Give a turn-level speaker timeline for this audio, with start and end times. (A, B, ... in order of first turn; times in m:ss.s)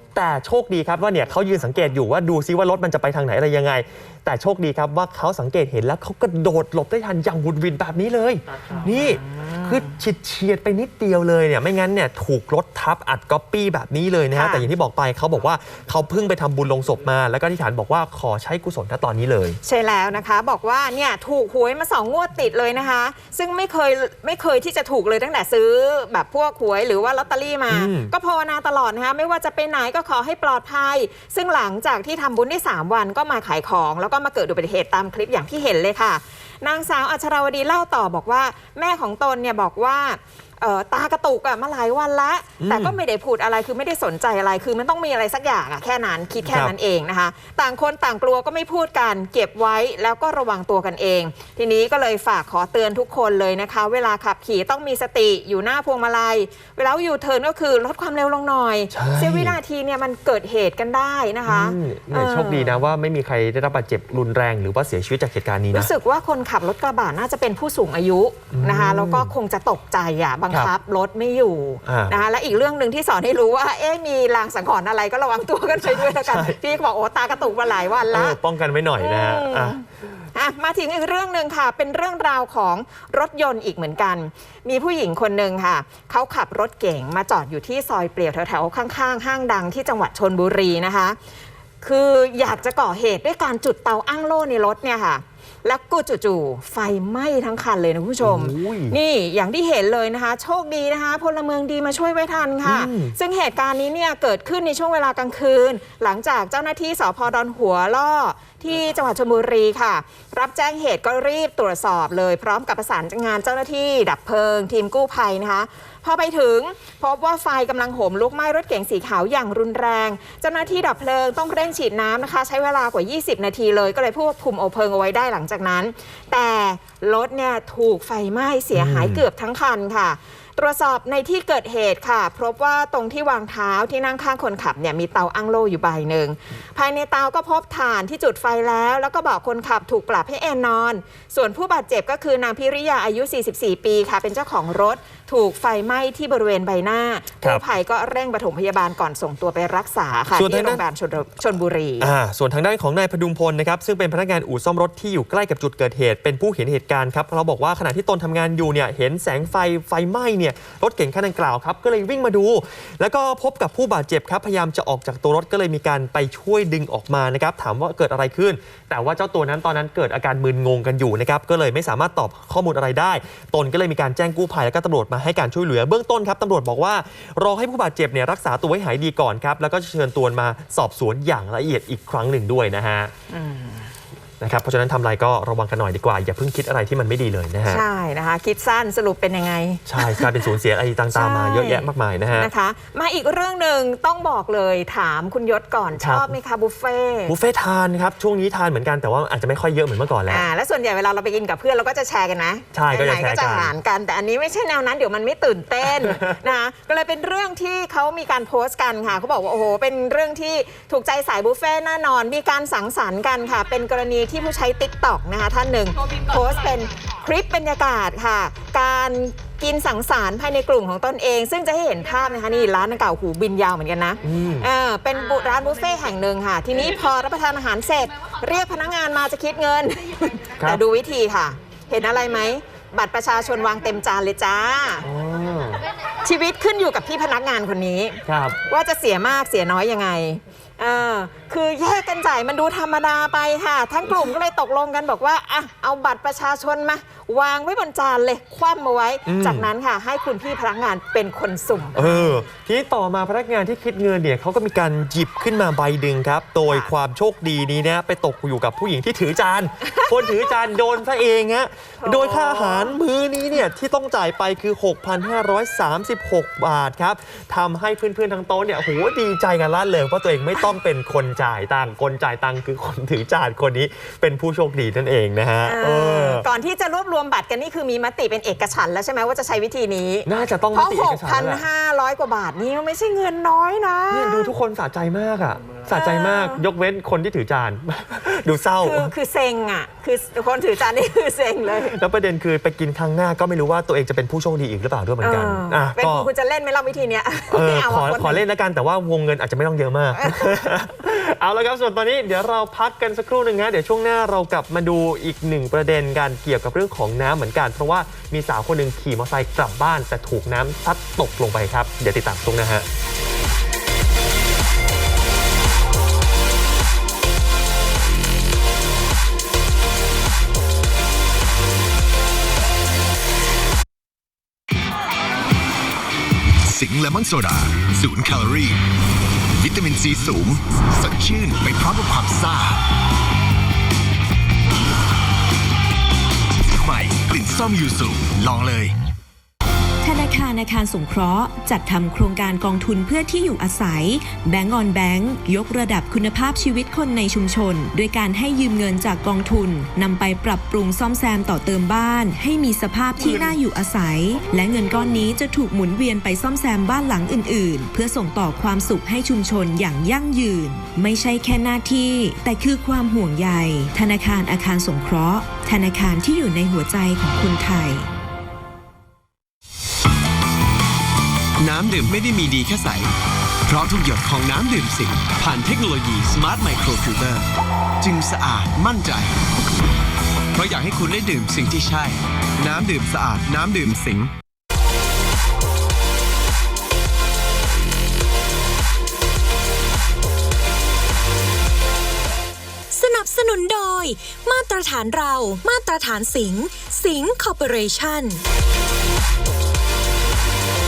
0:00.1-0:19.6 A
0:09.2-0:09.8 B
0:14.3-0:14.7 B
0:19.6-1:02.8 B
0:27.7-0:28.1 A
0:42.6-0:43.0 A
0:46.5-0:46.7 A
0:58.9-0:59.6 A
1:01.5-1:05.9 A
1:05.7-1:18.4 B
1:08.5-1:09.3 A
1:11.8-1:12.2 A
1:15.8-1:16.6 A
1:18.1-1:19.8 A
1:19.0-1:31.2 B
1:31.8-2:32.1 B
1:38.2-1:39.0 A
1:42.6-1:43.2 A
2:08.7-2:09.2 A
2:30.4-2:30.8 A
2:32.0-3:03.1 A
3:03.3-3:03.9 B
3:04.4-3:07.8 A
3:07.7-3:10.3 B
3:09.9-3:12.5 A
3:11.1-3:17.4 B
3:16.0-3:16.4 A
3:17.3-3:20.5 A
3:20.3-3:55.1 B
3:22.7-3:23.7 A
3:25.8-3:26.4 A
3:44.2-3:44.7 A
3:55.0-3:55.8 A
3:56.2-4:12.4 B
3:58.3-3:58.6 A
4:09.3-4:09.7 A
4:12.0-4:36.5 A
4:22.0-4:23.0 B
4:35.7-4:44.5 B
4:40.3-4:41.7 A
4:44.1-4:49.1 A
4:45.9-4:46.6 B
4:48.8-4:52.0 B
4:51.9-4:56.3 A
4:55.2-4:58.4 B
4:57.5-5:12.9 A
5:00.2-5:00.5 B
5:26.6-5:28.8 C
5:29.6-5:32.8 C
5:36.6-5:39.0 C
5:40.0-6:08.1 D
6:11.6-6:13.1 E
6:13.7-6:17.5 E
6:18.0-6:19.5 E
6:20.5-6:24.3 E
6:32.9-6:38.4 F